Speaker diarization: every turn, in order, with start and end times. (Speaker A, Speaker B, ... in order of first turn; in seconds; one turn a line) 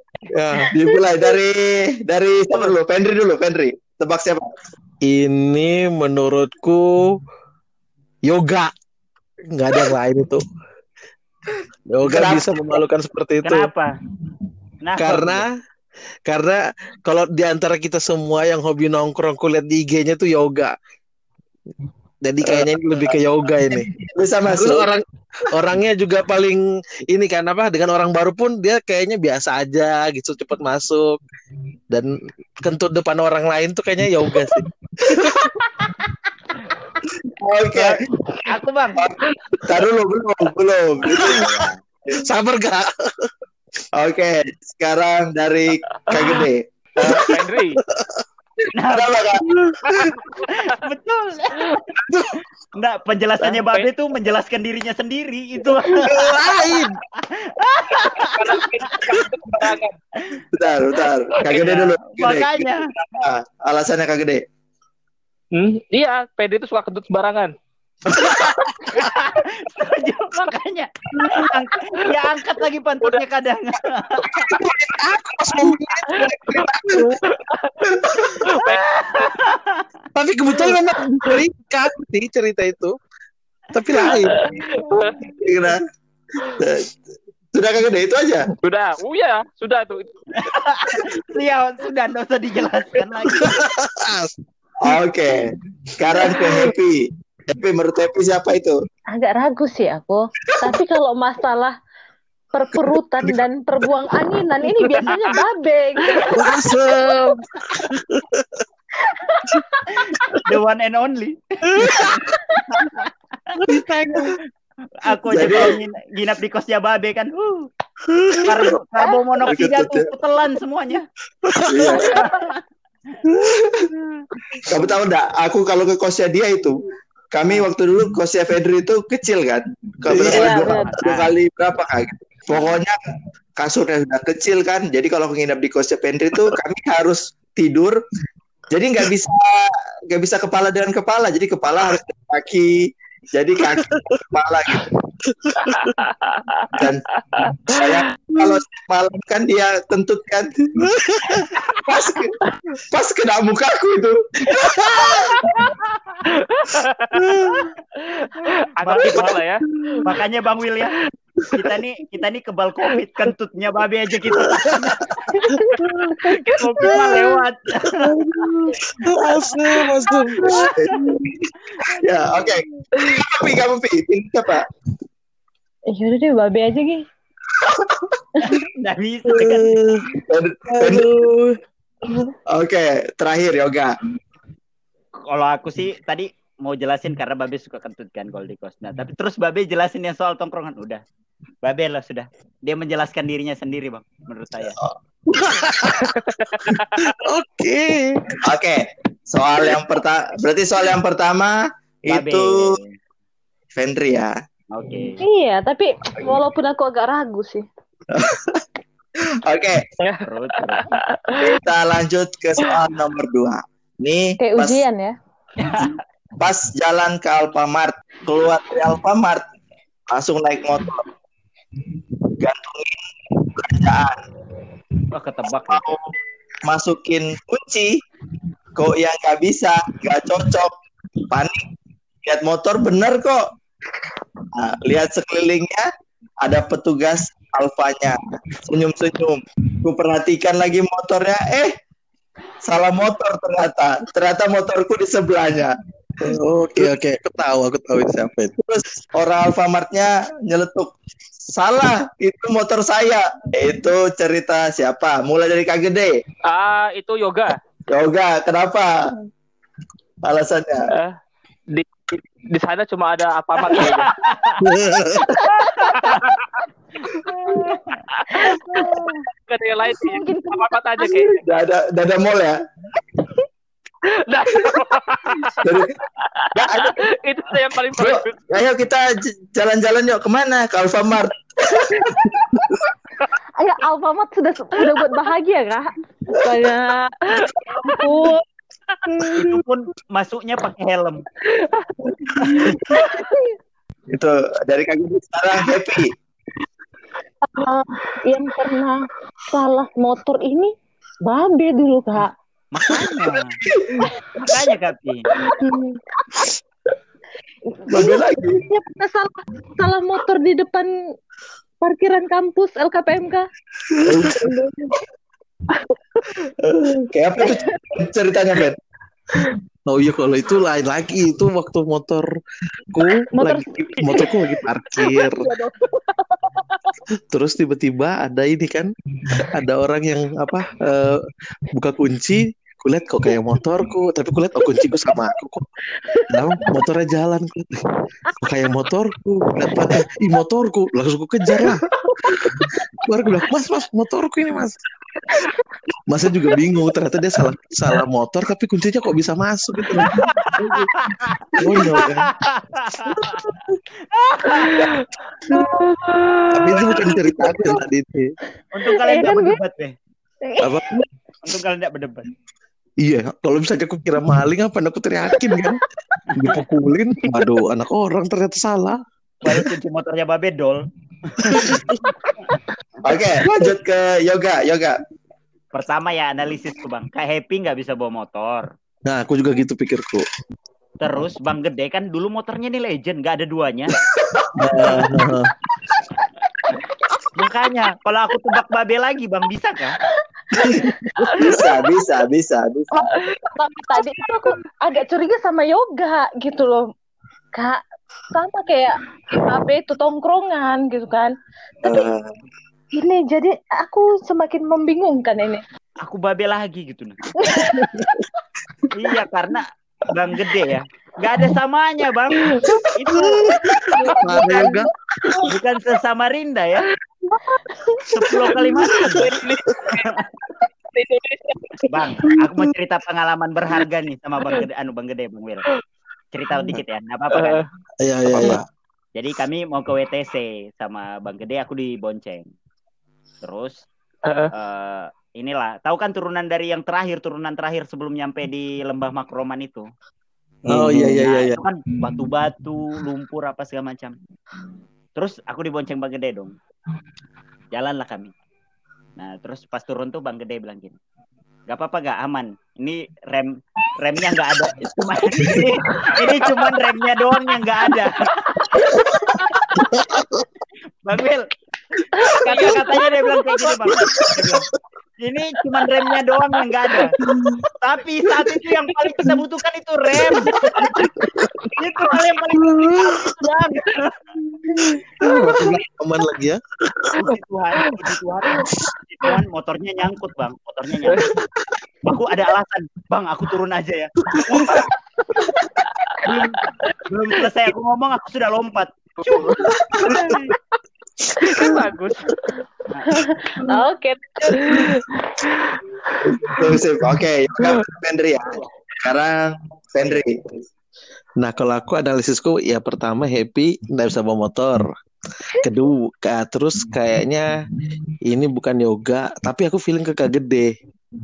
Speaker A: 0.3-0.7
Speaker B: 0.7-4.5
Speaker A: 5.0-7.1
Speaker A: 8.3-8.7
Speaker A: 9.5-10.4
Speaker A: 11.9-13.7
Speaker B: 12.0-12.8
Speaker C: 13.4-13.9
Speaker C: 14.8-15.5
Speaker A: 15.0-15.5
Speaker A: 16.3-20.7
Speaker A: 22.2-23.9
Speaker B: 22.4-23.2
Speaker B: 23.7-24.9
Speaker A: 24.5-31.2
Speaker A: 32.6-35.5
Speaker B: 35.2-35.5
Speaker B: 37.1-38.0
Speaker C: 37.7-39.0
Speaker B: 39.0-41.5
Speaker A: 41.1-41.4
Speaker C: 41.1-41.8
Speaker A: 42.2-43.3
Speaker B: 44.0-47.4
Speaker A: 47.0-47.3
Speaker D: 47.2-47.8
Speaker A: 47.9-48.2
Speaker C: 48.8-49.2
Speaker B: 48.9-50.2
Speaker A: 49.4-50.0
Speaker C: 50.4-51.8
Speaker A: 52.0-52.3
Speaker C: 52.8-59.0
Speaker D: 53.4-53.9
Speaker A: 56.0-57.0
Speaker D: 58.1-60.0
Speaker B: 60.5-64.4
Speaker C: 61.4-62.9
Speaker D: 65.5-67.5
Speaker C: 68.1-74.5
Speaker B: 74.4-75.0
Speaker A: 74.9-77.2
Speaker B: 75.5-77.1
Speaker D: 77.3-77.8
Speaker B: 77.9-78.4
Speaker D: 78.4-79.3
Speaker C: 78.5-79.9
Speaker A: 80.1-83.0
Speaker A: 83.7-84.6
Speaker D: 84.0-85.2
Speaker B: 85.3-85.8
Speaker B: 86.4-87.0
Speaker B: 87.5-88.5
Speaker D: 88.6-90.1
Speaker C: 90.3-93.5
Speaker A: 93.4-94.3
Speaker B: 94.8-98.8
Speaker E: 99.1-101.7
Speaker E: 102.5-106.5
Speaker D: 105.0-105.3
Speaker A: 106.3-108.5
Speaker E: 109.0-109.8
Speaker C: 110.0-113.1
Speaker A: 111.7-112.1
Speaker E: 112.3-112.6
Speaker A: 113.6-114.4
Speaker C: 115.0-117.7
Speaker B: 115.3-115.8
Speaker A: 118.1-118.5
Speaker C: 118.4-121.0
Speaker E: 119.0-119.4
Speaker B: 119.4-120.1
Speaker A: 121.6-122.1
Speaker B: 121.6-122.2
Speaker C: 121.9-122.6
Speaker B: 123.4-123.9
Speaker B: 124.6-133.0
Speaker A: 130.1-130.7
Speaker E: 130.2-130.9
Speaker C: 130.3-131.3
Speaker B: 133.6-138.0
Speaker B: 138.7-142.8
Speaker B: 143.3-144.9
Speaker A: 143.6-144.2
Speaker A: 145.3-146.0
Speaker D: 145.7-148.1
Speaker B: 146.7-147.0
Speaker B: 147.7-152.4
Speaker A: 150.8-151.5
Speaker B: 152.9-155.7
Speaker C: 154.7-156.2
Speaker D: 156.3-157.5
Speaker A: 157.1-157.7
Speaker D: 158.0-159.6
Speaker C: 158.8-159.4
Speaker C: 160.0-160.9
Speaker C: 161.5-165.4
Speaker E: 165.4-167.4
Speaker A: 165.7-166.3
Speaker C: 166.5-168.1
Speaker A: 167.9-170.7
Speaker C: 170.4-171.1
Speaker B: 170.7-174.7
Speaker C: 171.8-172.4
Speaker E: 172.9-173.2
Speaker E: 175.9-177.1
Speaker B: 177.7-178.2
Speaker C: 178.4-179.8
Speaker A: 179.3-180.0
Speaker B: 180.3-181.2
Speaker A: 180.7-181.5
Speaker B: 182.5-183.9
Speaker C: 185.3-191.0
Speaker C: 191.6-194.8
Speaker A: 195.3-198.4
Speaker D: 196.4-196.8
Speaker B: 198.4-202.8
Speaker C: 202.1-203.0
Speaker B: 203.7-204.3
Speaker C: 204.7-205.2
Speaker E: 205.2-207.7
Speaker B: 208.1-208.6
Speaker B: 209.4-209.8
Speaker D: 210.0-211.6
Speaker C: 210.2-211.0
Speaker B: 211.4-214.8
Speaker E: 214.4-215.1
Speaker C: 215.6-216.0
Speaker B: 216.4-219.5
Speaker B: 220.1-221.1
Speaker B: 222.4-223.0
Speaker B: 223.5-224.2
Speaker C: 225.1-225.9
Speaker B: 225.7-228.0
Speaker B: 228.8-231.7
Speaker B: 232.2-233.4
Speaker B: 234.5-235.9
Speaker B: 236.4-241.7
Speaker B: 242.6-245.7
Speaker A: 246.2-248.5
Speaker B: 246.2-246.8
Speaker B: 248.6-250.9
Speaker B: 251.5-256.1
Speaker D: 256.5-257.6
Speaker B: 257.9-258.9
Speaker B: 260.2-260.9
Speaker D: 261.7-264.1
Speaker C: 263.7-264.6
Speaker A: 264.6-265.4
Speaker E: 265.4-265.9
Speaker C: 265.4-266.3
Speaker D: 265.9-266.4
Speaker E: 267.3-267.8
Speaker C: 267.5-268.5
Speaker D: 268.1-271.4
Speaker E: 268.3-269.3
Speaker E: 269.9-271.1
Speaker B: 271.1-272.5
Speaker D: 274.1-278.4
Speaker B: 275.6-275.9
Speaker B: 276.5-277.0
Speaker B: 277.9-282.6
Speaker E: 283.6-288.4
Speaker D: 287.4-288.1
Speaker E: 289.1-289.6
Speaker C: 289.4-291.2
Speaker E: 291.5-291.9
Speaker B: 292.2-292.9
Speaker E: 292.5-293.6
Speaker C: 292.5-293.0
Speaker B: 294.1-296.1
Speaker E: 297.5-300.7
Speaker E: 301.2-302.3
Speaker C: 302.7-303.6
Speaker B: 303.7-304.5
Speaker C: 304.4-305.3
Speaker E: 305.5-306.0
Speaker E: 307.8-310.9
Speaker B: 307.9-308.6
Speaker E: 311.8-313.5
Speaker B: 314.0-314.5
Speaker E: 314.3-314.9
Speaker B: 316.6-318.8
Speaker E: 317.4-317.9
Speaker A: 319.9-322.3
Speaker A: 322.9-325.4
Speaker E: 323.3-326.7
Speaker A: 327.3-328.9
Speaker A: 329.5-331.2
Speaker A: 331.7-335.6
Speaker E: 336.1-336.6
Speaker A: 336.3-337.8
Speaker A: 338.4-344.8
Speaker E: 341.6-342.4
Speaker A: 346.1-350.8
Speaker C: 350.0-353.6
Speaker A: 351.6-352.3
Speaker A: 353.2-353.7
Speaker C: 354.1-354.9
Speaker E: 355.5-357.7
Speaker A: 356.5-358.3
Speaker B: 356.8-357.4
Speaker C: 358.7-359.9
Speaker E: 358.9-359.6
Speaker E: 360.4-361.0
Speaker A: 360.6-361.0
Speaker C: 361.4-362.2
Speaker A: 363.0-365.8
Speaker E: 365.4-365.8
Speaker A: 366.4-369.0
Speaker C: 369.4-371.8
Speaker A: 371.5-372.0
Speaker B: 373.0-375.0
Speaker C: 375.7-378.6
Speaker A: 379.1-380.2
Speaker C: 381.0-383.9
Speaker B: 384.1-384.5
Speaker A: 384.6-385.5
Speaker C: 387.3-390.0
Speaker E: 390.5-391.8
Speaker B: 390.6-393.1
Speaker E: 392.9-396.9
Speaker E: 397.5-402.1
Speaker B: 401.8-402.3
Speaker E: 402.9-405.6
Speaker C: 406.0-407.8
Speaker E: 407.4-408.1
Speaker C: 408.9-414.8
Speaker A: 413.5-414.9
Speaker B: 413.6-414.0
Speaker E: 414.0-414.8
Speaker C: 415.4-416.9
Speaker E: 417.3-418.0
Speaker C: 418.1-419.4
Speaker D: 419.1-420.1
Speaker C: 419.9-420.2
Speaker D: 420.9-421.9
Speaker C: 421.8-425.6
Speaker C: 426.3-427.6
Speaker D: 427.3-427.6
Speaker A: 428.0-428.6
Speaker C: 429.1-432.5
Speaker C: 433.4-433.7
Speaker D: 434.2-434.5
Speaker C: 434.5-439.9
Speaker B: 440.7-441.2
Speaker A: 440.7-441.6
Speaker C: 440.9-444.2
Speaker C: 445.1-446.5
Speaker C: 447.7-448.3
Speaker C: 449.2-451.0
Speaker C: 451.7-458.9
Speaker A: 455.4-455.7
Speaker A: 459.3-460.4
Speaker C: 461.0-461.5
Speaker E: 462.2-463.2
Speaker C: 462.2-464.7
Speaker A: 464.1-464.6
Speaker C: 465.2-467.1
Speaker A: 467.2-467.6
Speaker C: 467.8-470.9
Speaker A: 471.2-471.5
Speaker C: 471.7-474.1
Speaker A: 472.6-473.2
Speaker A: 474.8-477.3
Speaker E: 475.2-475.8
Speaker C: 477.2-481.2
Speaker C: 482.0-484.8
Speaker A: 484.3-484.8
Speaker C: 486.2-490.5
Speaker B: 489.9-490.2
Speaker D: 491.4-492.5
Speaker C: 492.9-493.2
Speaker E: 493.1-495.1
Speaker B: 496.2-500.5
Speaker A: 501.4-504.9
Speaker A: 505.6-507.5
Speaker A: 508.3-510.7